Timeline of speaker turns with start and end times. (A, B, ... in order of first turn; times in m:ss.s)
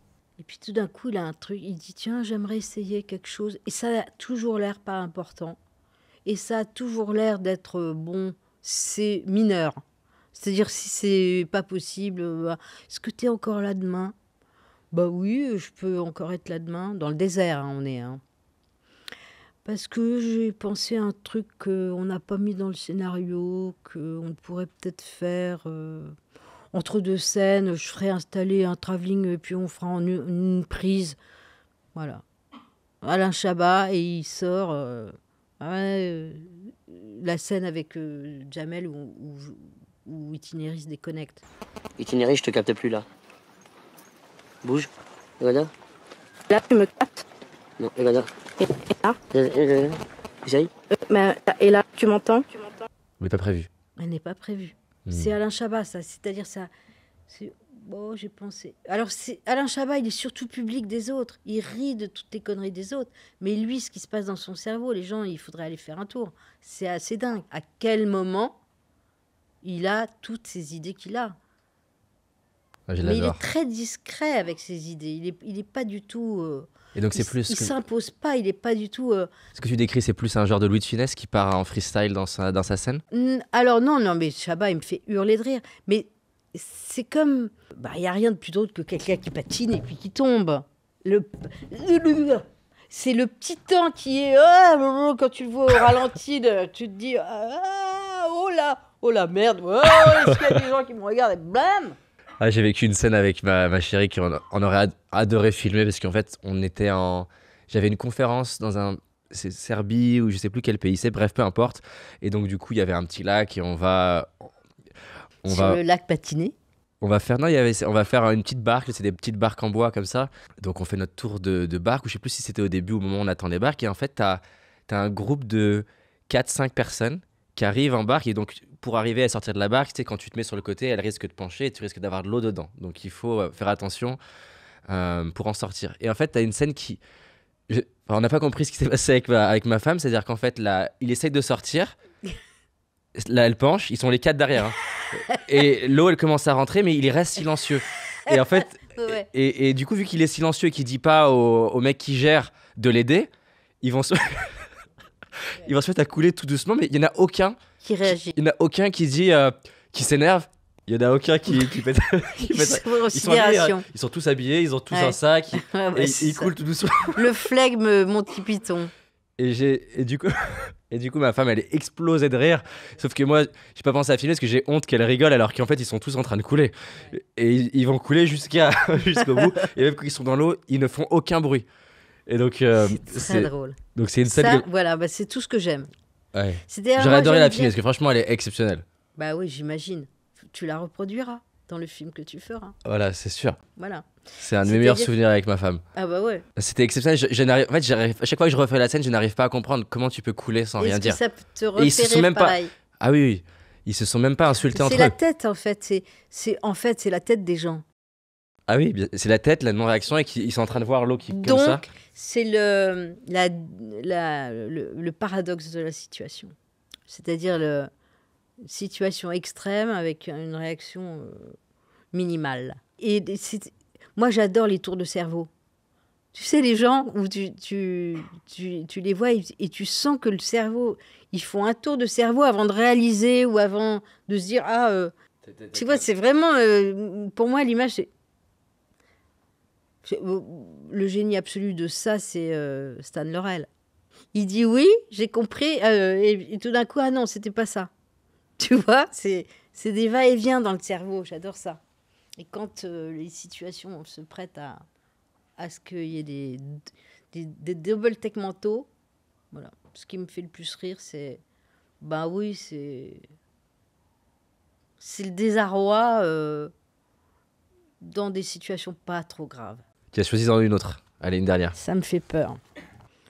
0:00.4-0:05.6 A
0:06.2-0:09.8 A
0:10.3-0:14.1 A
0:14.9-0:18.2 A
0:19.6-0:26.2 A
0:26.7-0:31.2 A
0:31.9-0:32.2 A
0:33.0-0:41.4 A
0:42.0-0:43.0 B
0:44.6-0:44.9 B
0:45.4-0:45.7 B
0:46.5-0:47.2 C
0:47.8-0:48.3 B
0:48.6-0:49.2 C
0:49.3-0:50.7 B
0:50.9-0:52.5 C
0:53.2-0:53.7 D
0:54.0-0:56.7 A
0:55.0-0:55.3 D
0:57.3-1:08.6 A
1:09.6-1:11.4 A
1:12.9-1:13.4 D
1:13.0-1:19.3 A
1:16.9-1:17.7 D
1:19.5-1:23.0 D
1:23.1-1:42.0 A
1:39.8-1:40.5 D
1:42.4-1:54.5 D
1:55.4-1:55.8 D
1:55.5-1:56.5 A
1:57.0-2:14.2 D
2:14.9-2:17.0 D
2:17.7-2:22.0 D
2:23.1-2:33.3 D
2:28.2-2:29.3 A
2:33.8-2:34.7 D
2:35.4-2:47.2 D
2:37.8-2:38.4 A
2:42.3-2:43.8 A
2:44.9-2:46.5 A
2:47.1-2:48.9 A
2:49.4-3:01.7 D
3:02.3-3:04.6 D
3:02.8-3:05.9 A
3:06.3-3:08.8 D
3:06.7-3:07.7 A
3:09.2-3:12.8 A
3:12.8-3:13.6 D
3:13.8-3:14.1 A
3:14.4-3:15.8 D
3:14.6-3:15.1 A
3:15.9-3:16.4 A
3:16.6-3:21.2 D
3:20.8-3:22.7 A
3:21.7-3:25.1 D
3:24.7-3:27.8 A
3:28.7-3:31.8 D
3:31.3-3:36.5 A
3:37.1-3:37.9 A
3:38.6-3:41.6 A
3:42.1-3:45.5 A
3:46.3-3:55.1 A
3:55.4-3:56.0 D
3:55.7-3:58.1 A
4:00.0-4:03.7 A
4:04.3-4:07.9 A
4:08.6-4:11.8 A
4:12.4-4:14.8 A
4:15.6-4:16.8 A
4:17.3-4:18.9 A
4:19.5-4:21.4 A
4:22.0-4:23.2 A
4:25.0-4:26.7 A
4:28.0-4:29.8 A
4:30.1-4:31.8 D
4:31.8-4:32.6 A